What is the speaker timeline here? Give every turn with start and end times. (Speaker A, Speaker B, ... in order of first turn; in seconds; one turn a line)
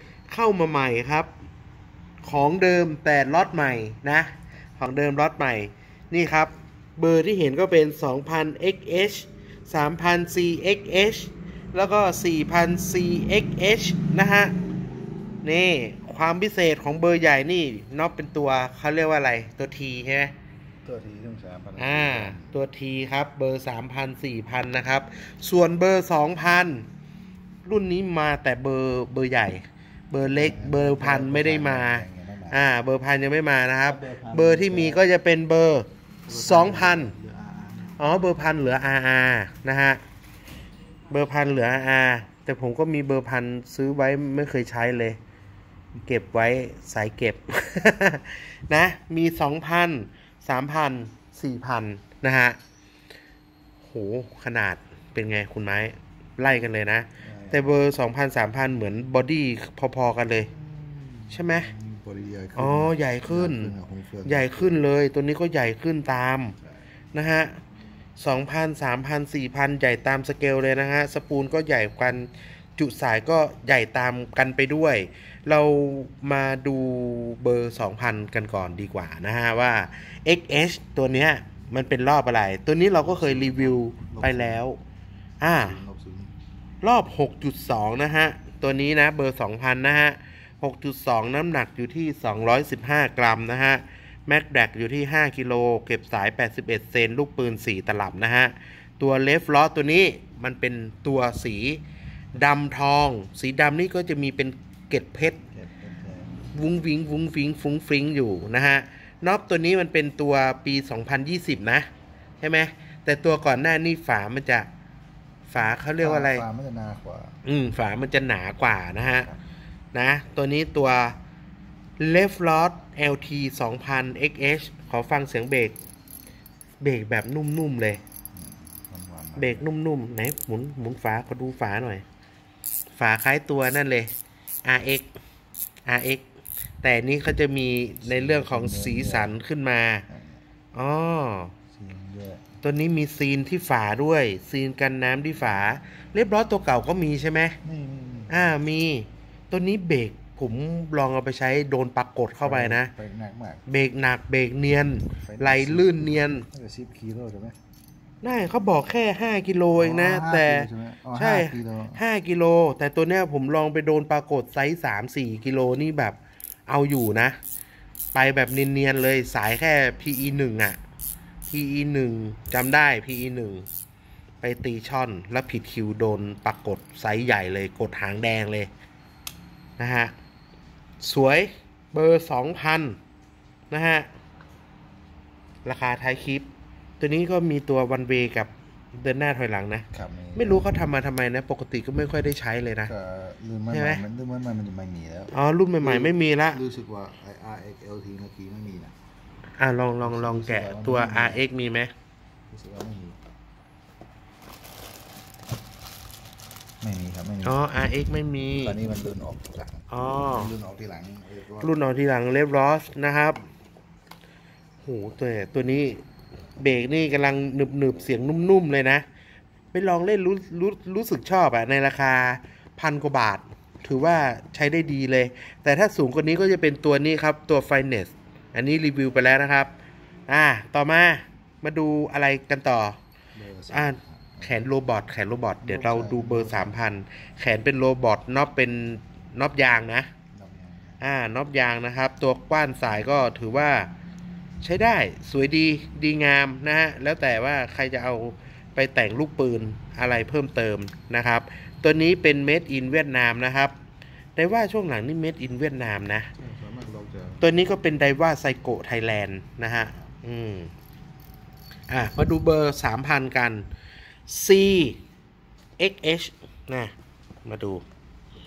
Speaker A: 0.3-1.3
Speaker A: 2.2-14.5
Speaker A: 15.4-20.3
Speaker B: 20.8-22.6
Speaker A: 21.8-26.9
Speaker A: 27.6-37.1
Speaker B: 30.2-32.6
Speaker B: 33.8-35.1
Speaker B: 36.3-38.0
Speaker A: 38.0-40.0
Speaker A: 41.1-45.2
Speaker A: 46.0-52.6
Speaker A: 53.8-60.5
Speaker B: 57.2-57.8
Speaker B: 60.4-64.8
Speaker A: 61.3-61.7
Speaker A: 62.5-63.7
Speaker A: 64.2-66.5
Speaker A: 67.1-67.6
Speaker A: 68.2-84.8
Speaker B: 83.0-84.6
Speaker A: 85.4-85.8
Speaker B: 85.5-86.3
Speaker A: 86.8-101.8
Speaker A: 102.3-105.4
Speaker B: 105.5-106.5
Speaker A: 106.5-111.9
Speaker A: 112.4-114.7
Speaker A: 115.5-116.4
Speaker B: 116.0-117.4
Speaker A: 117.4-119.3
Speaker B: 119.1-119.4
Speaker A: 119.9-121.2
Speaker A: 122.0-125.8
Speaker A: 126.8-128.0
Speaker B: 128.3-129.7
Speaker A: 129.4-132.0
Speaker A: 133.0-134.1
Speaker A: 134.6-135.1
Speaker A: 135.8-136.2
Speaker A: 136.8-140.0
Speaker B: 138.0-139.4
Speaker B: 140.1-140.4
Speaker A: 140.7-141.5
Speaker B: 141.7-142.6
Speaker A: 142.6-147.6
Speaker B: 147.6-148.5
Speaker A: 148.3-152.9
Speaker B: 152.4-153.6
Speaker A: 153.7-156.4
Speaker B: 155.2-157.6
Speaker A: 158.2-167.4
Speaker B: 159.7-162.0
Speaker A: 168.1-170.8
Speaker A: 171.5-173.7
Speaker A: 174.4-178.7
Speaker A: 179.8-180.1
Speaker A: 181.0-183.0
Speaker A: 183.7-184.1
Speaker A: 185.6-186.5
Speaker A: 187.0-192.9
Speaker B: 189.9-190.7
Speaker B: 192.8-198.9
Speaker A: 193.7-194.0
Speaker A: 195.3-196.6
Speaker A: 199.6-201.9
Speaker B: 200.0-201.4
Speaker B: 202.5-203.2
Speaker B: 206.8-207.6
Speaker A: 207.4-208.8
Speaker B: 208.5-211.8
Speaker A: 209.9-210.5
Speaker A: 211.6-213.4
Speaker A: 214.8-216.0
Speaker A: 216.6-219.0
Speaker A: 219.7-229.7
Speaker A: 230.3-233.0
Speaker B: 233.3-234.6
Speaker A: 233.7-240.1
Speaker B: 235.6-236.8
Speaker B: 240.3-241.0
Speaker A: 241.0-243.9
Speaker A: 244.6-253.7
Speaker A: 254.3-256.3
Speaker B: 256.4-257.5
Speaker A: 257.4-260.7
Speaker A: 261.9-263.6
Speaker A: 264.3-265.0
Speaker A: 265.8-266.9
Speaker A: 267.4-267.8